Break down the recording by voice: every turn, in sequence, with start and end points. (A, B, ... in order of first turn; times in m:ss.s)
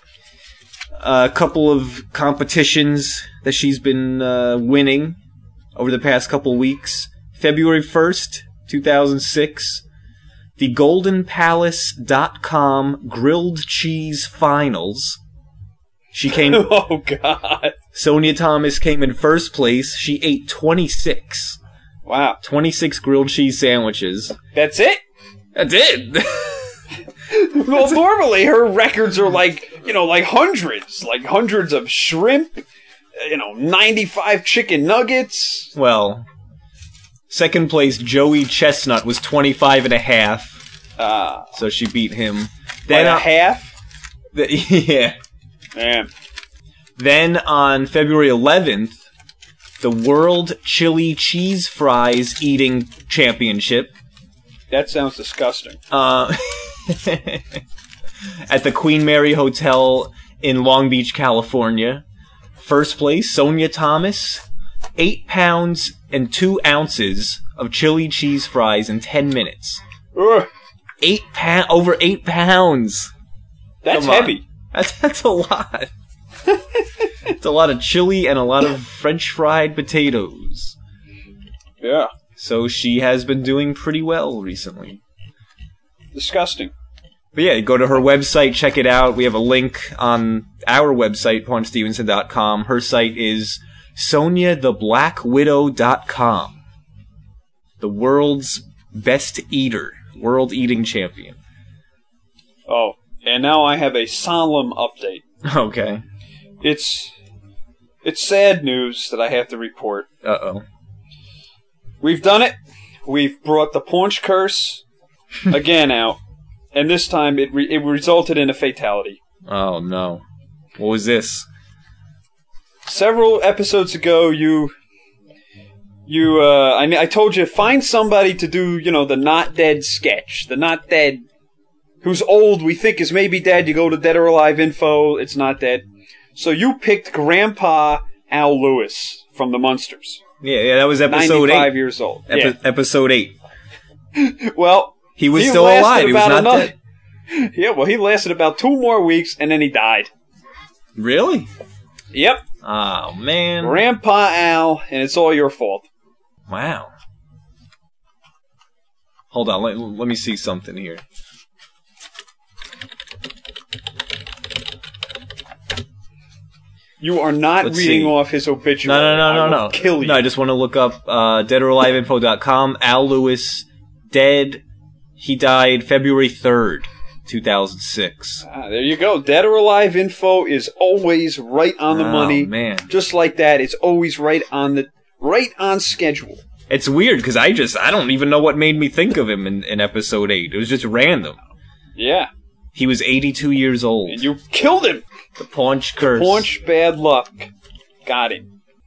0:01.0-0:05.2 A
0:05.8-0:09.8 A
0:10.6-0:15.2 A
0:16.1-0:16.7 A
0:16.3-0:17.8 B
0:17.9-0:21.6 A
0:22.0-0:22.4 B
0:22.4-0:24.4 A
0:24.5-0:25.0 B
0:25.6-0:26.8 A
0:27.3-0:32.7 B
0:33.2-0:35.7 B
0:35.8-0:36.3 A
0:37.3-0:40.6 A
0:41.0-0:41.5 B
0:41.5-0:43.3 A
0:42.9-0:43.7 B
0:44.3-0:45.2 A
0:45.8-0:46.1 B
0:47.0-0:49.0 A
0:49.8-0:53.9 A
0:54.7-0:55.8 B
0:55.9-0:57.6 A
0:58.5-1:02.0 A
1:02.6-1:04.4 A
1:05.0-1:09.8 A
1:10.2-1:10.5 B
1:11.0-1:13.1 A
1:13.8-1:14.4 B
1:13.9-1:15.9 A
1:17.3-1:20.8 A
1:21.8-1:22.1 B
1:22.4-1:25.0 A
1:26.1-1:26.7 B
1:27.4-1:36.6 A
1:37.8-1:41.4 A
1:42.7-1:45.2 B
1:45.4-1:46.0 A
1:46.6-1:47.1 B
1:48.0-1:50.1 B
1:50.2-1:50.6 A
1:52.0-1:54.8 B
1:55.5-1:56.2 B
1:56.7-1:59.2 B
1:59.5-2:00.2 A
2:00.8-2:01.5 A
2:02.8-2:04.7 B
2:06.1-2:11.2 B
2:12.0-2:20.2 B
2:20.4-2:21.8 A
2:21.1-2:22.6 B
2:22.3-2:23.4 A
2:24.2-2:26.7 B
2:25.2-2:26.7 A
2:27.3-2:30.1 B
2:31.0-2:31.5 A
2:32.1-2:32.4 B
2:32.6-2:33.8 A
2:33.6-2:35.9 B
2:36.5-2:36.9 A
2:39.3-2:41.0 A
2:47.0-2:50.2 B
2:47.6-2:48.2 A
2:48.8-2:54.6 A
2:55.2-2:58.4 A
2:58.4-3:06.4 B
3:01.9-3:02.9 A
3:06.7-3:11.4 A
3:12.0-3:12.3 B
3:12.7-3:14.3 A
3:14.1-3:15.0 B
3:15.4-3:16.5 A
3:16.1-3:17.5 B
3:18.0-3:18.5 B